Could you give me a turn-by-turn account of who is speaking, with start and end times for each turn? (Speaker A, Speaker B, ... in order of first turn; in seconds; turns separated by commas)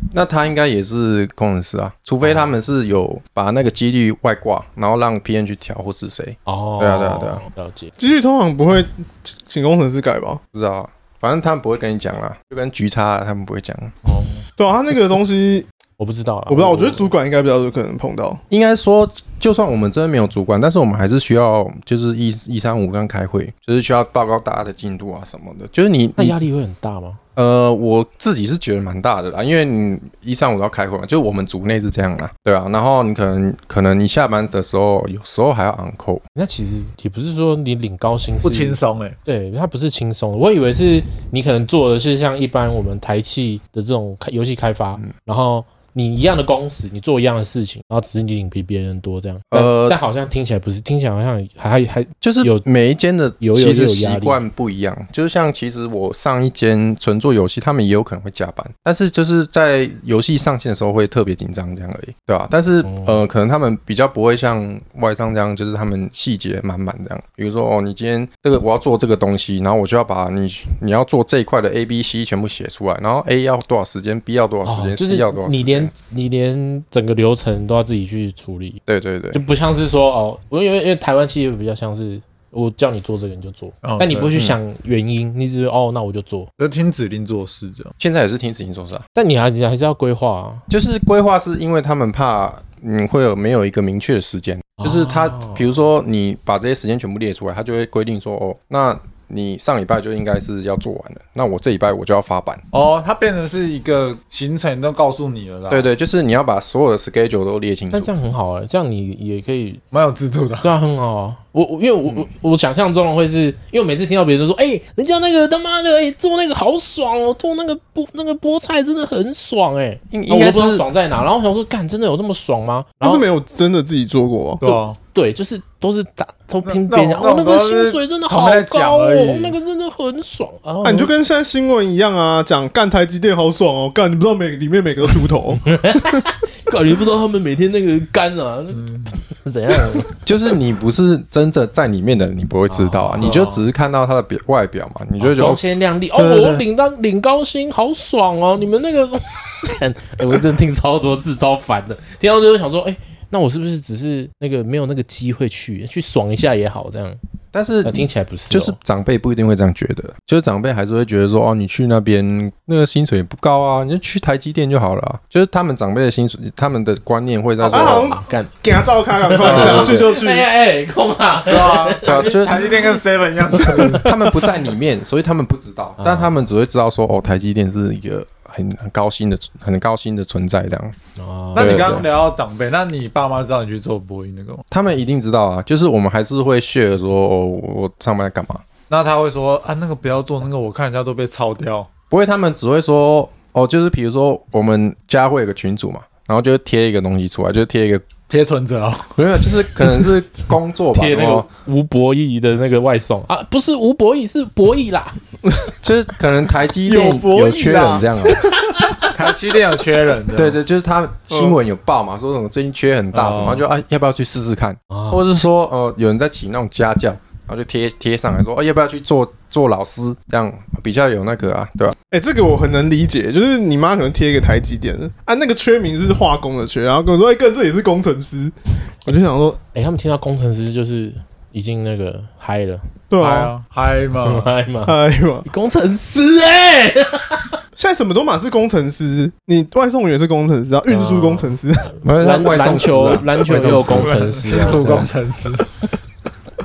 Speaker A: 0.1-7.5, Speaker B: 6.5-7.9, Speaker C: 8.0-10.4, Speaker A: 10.5-13.9, Speaker D: 14.0-14.5, Speaker C: 14.6-15.7, Speaker B: 16.0-17.1, Speaker C: 16.5-18.4, Speaker A: 18.5-26.4, Speaker B: 26.2-27.2, Speaker A: 27.4-36.2, Speaker B: 36.4-52.6, Speaker D: 38.4-39.2, Speaker A: 49.5-50.0, Speaker A: 52.2-75.9, Speaker B: 53.4-54.4, Speaker B: 62.9-63.2, Speaker B: 74.7-78.8, Speaker A: 78.9-79.4, Speaker B: 79.3-86.5, Speaker D: 83.8-84.3, Speaker D: 86.6-87.9, Speaker A: 88.0-89.0, Speaker B: 89.2-90.7, Speaker A: 90.7-102.6, Speaker B: 94.8-95.6, Speaker D: 102.7-105.9, Speaker A: 105.7-108.1, Speaker B: 107.9-109.8, Speaker D: 109.9-110.7, Speaker B: 110.6-123.2, Speaker A: 120.1-120.9, Speaker C: 123.0-124.8, Speaker D: 124.6-125.0, Speaker B: 125.1-131.1, Speaker D: 126.6-129.6, Speaker C: 130.8-135.8, Speaker B: 135.7-140.2, Speaker D: 138.7-139.1, Speaker A: 140.3-145.6, Speaker B: 142.7-143.3, Speaker D: 143.2-143.7, Speaker B: 145.2-157.2, Speaker A: 146.2-146.6, Speaker A: 157.5-168.2, Speaker B: 157.8-158.8, Speaker C: 167.7-170.5, Speaker B: 167.7-168.6, Speaker B: 169.2-172.7, Speaker D: 169.4-169.9, Speaker A: 169.4-170.1, Speaker D: 171.5-174.2, Speaker A: 172.0-172.7, Speaker B: 173.6-174.0, Speaker A: 174.0-181.0, Speaker B: 176.0-176.3, Speaker B: 181.2-182.1, Speaker D: 181.6-184.6, Speaker A: 181.6-182.1, Speaker A: 184.7-188.7, Speaker D: 188.9-191.9, Speaker A: 192.1-198.1, Speaker D: 198.3-199.2, Speaker A: 199.2-201.5, Speaker B: 200.9-205.2, Speaker A: 205.8-208.5, Speaker C: 206.8-209.1, Speaker D: 209.1-210.6, Speaker A: 210.3-222.0, Speaker C: 211.3-211.6, Speaker D: 213.1-213.6, Speaker B: 214.9-215.2, Speaker C: 222.1-229.6, Speaker B: 229.7-232.9, Speaker C: 233.1-233.5, Speaker D: 233.2-234.5, Speaker B: 234.2-237.5, Speaker C: 234.8-235.5, Speaker C: 237.8-242.0, Speaker B: 240.9-241.5, Speaker A: 242.0-244.3, Speaker B: 242.1-245.1, Speaker D: 243.5-245.7